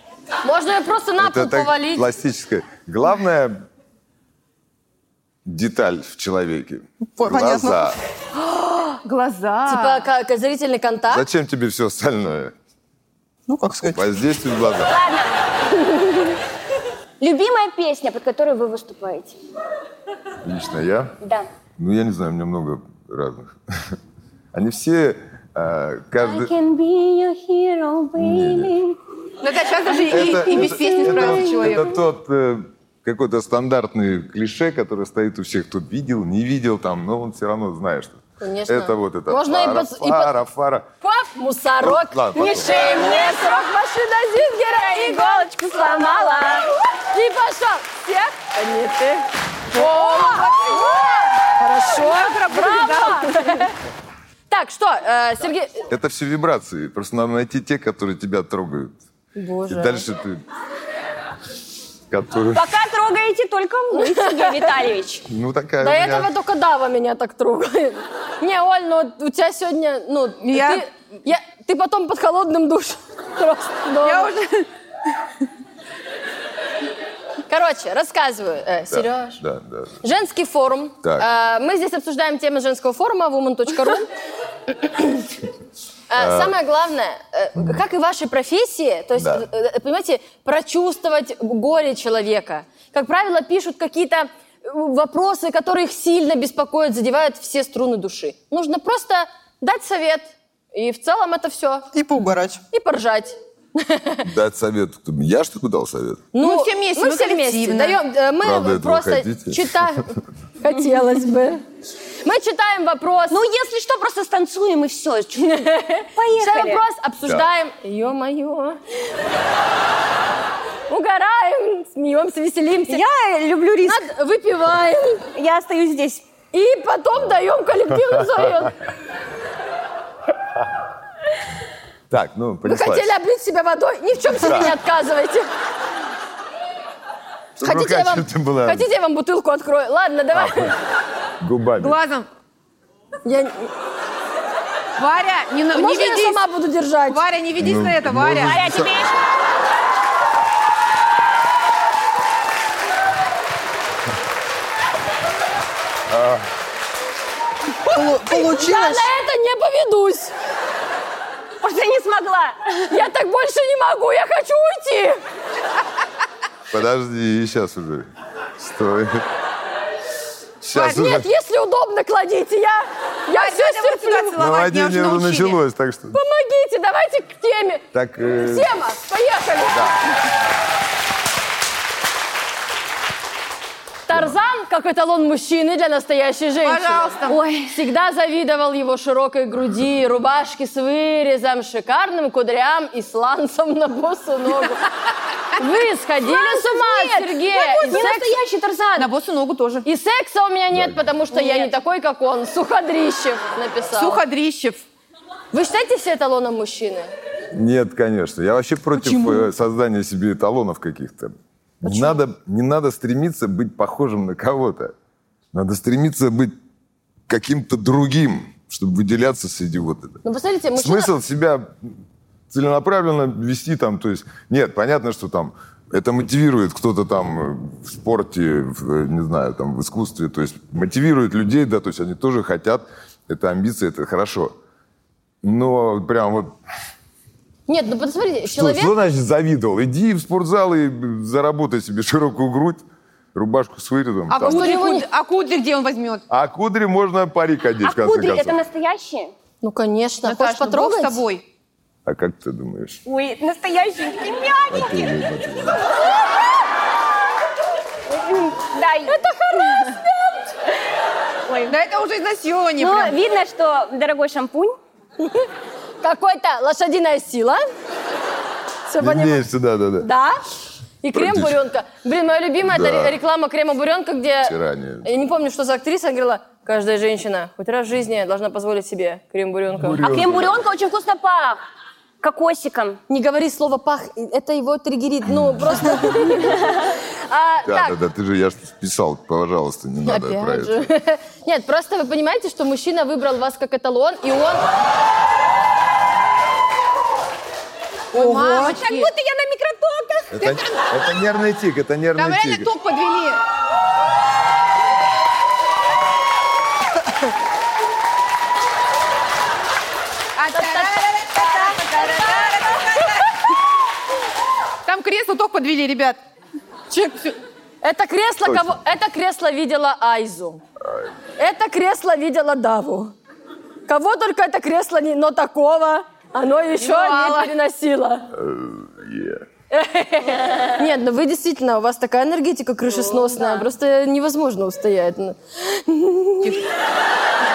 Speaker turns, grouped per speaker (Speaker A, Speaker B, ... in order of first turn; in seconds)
Speaker A: 0.4-2.1, 8.4-9.0, 9.7-11.2, 15.9-16.3, 38.4-40.3, 41.0-53.7, 54.5-55.9, 59.4-60.0, 63.9-64.7, 65.8-74.3, 77.5-79.4, 80.0-84.1, 84.8-85.3, 86.1-101.9, 102.7-104.3, 106.3-111.6, 112.2-113.4, 115.4-118.8, 120.9-123.0, 123.8-125.2, 126.5-128.8, 132.6-135.5, 137.6-140.7, 143.2-143.7, 145.7-147.2, 157.9-160.3, 162.9-165.2, 170.7-174.3, 176.1-177.8, 178.4-180.0, 184.1-187.2, 187.7-194.8, 195.5-198.3, 199.8-204.2, 205.5-207.1, 211.8-212.2, 220.2-221.1, 237.7-238.9, 244.4-245.1, 249.6-251.2, 259.1-260.1, 266.0-267.6, 268.9-269.4, 270.0-270.4, 271.0-280.1, 283.1-287.9, 290.0-294.7, 310.5-311.0, 317.8-320.6, 321.4-323.1, 323.9-328.3, 329.7-336.6
Speaker B: 1.2-3.6, 5.4-8.0, 11.1-12.5, 13.9-14.9, 20.4-21.1, 21.8-24.0, 24.5-26.5, 28.1-28.7, 30.1-40.9, 41.8-42.8, 55.9-59.0, 59.7-60.4, 62.1-62.7, 65.3-66.3, 78.9-80.0, 81.0-81.3, 86.2-86.5, 89.2-89.5, 104.2-106.3, 108.4-109.8, 132.1-133.1, 134.3-134.7, 137.6-138.9, 140.3-140.7, 141.4-142.0, 147.6-149.1, 156.1-156.5, 166.7-168.1, 168.6-169.2, 170.6-171.3, 174.4-176.2, 177.9-178.7, 179.6-179.9, 184.1-184.3, 207.5-214.9, 215.5-216.5, 217.3-220.2, 220.8-221.9, 222.5-234.5, 235.4-236.5, 238.4-244.7, 246.3-248.6, 252.0-253.0, 254.7-255.8, 269.0-270.1, 271.1-271.6, 272.6-273.1, 274.4-275.1, 279.8-280.6, 287.6-290.9, 300.3-302.7, 318.4-318.8, 320.8-321.1, 328.3-329.4
Speaker C: 7.2-7.9, 13.5-14.1, 101.9-102.6, 157.9-159.1, 298.1-298.8
Speaker D: 9.0-10.1, 29.4-31.9, 49.7-50.9, 51.9-53.7, 70.4-70.8, 74.0-74.7, 106.4-108.0, 141.8-142.3, 145.0-146.4, 147.1-148.6, 173.3-175.6, 186.6-187.4, 199.0-199.8, 204.0-204.8, 209.0-209.5, 244.3-246.2, 250.2-251.4, 261.7-263.1, 298.1-299.1, 300.4-300.8, 302.1-303.4, 310.4-313.4, 314.8-316.2, 316.9-317.4, 326.8-327.5
Speaker E: 14.7-15.4, 17.2-19.4, 21.2-21.5, 26.2-29.0, 29.9-31.9, 42.3-43.6, 44.5-46.7, 62.5-65.2, 113.3-115.6, 116.2-116.8, 122.9-124.0, 125.3-126.2, 148.4-149.2, 161.6-162.9, 187.3-187.8, 196.2-199.1, 201.3-201.7, 247.8-249.3, 253.1-255.1, 258.2-260.0, 261.5-261.7, 262.8-264.8, 280.0-281.6, 282.2-283.0, 286.4-286.8, 298.5-300.3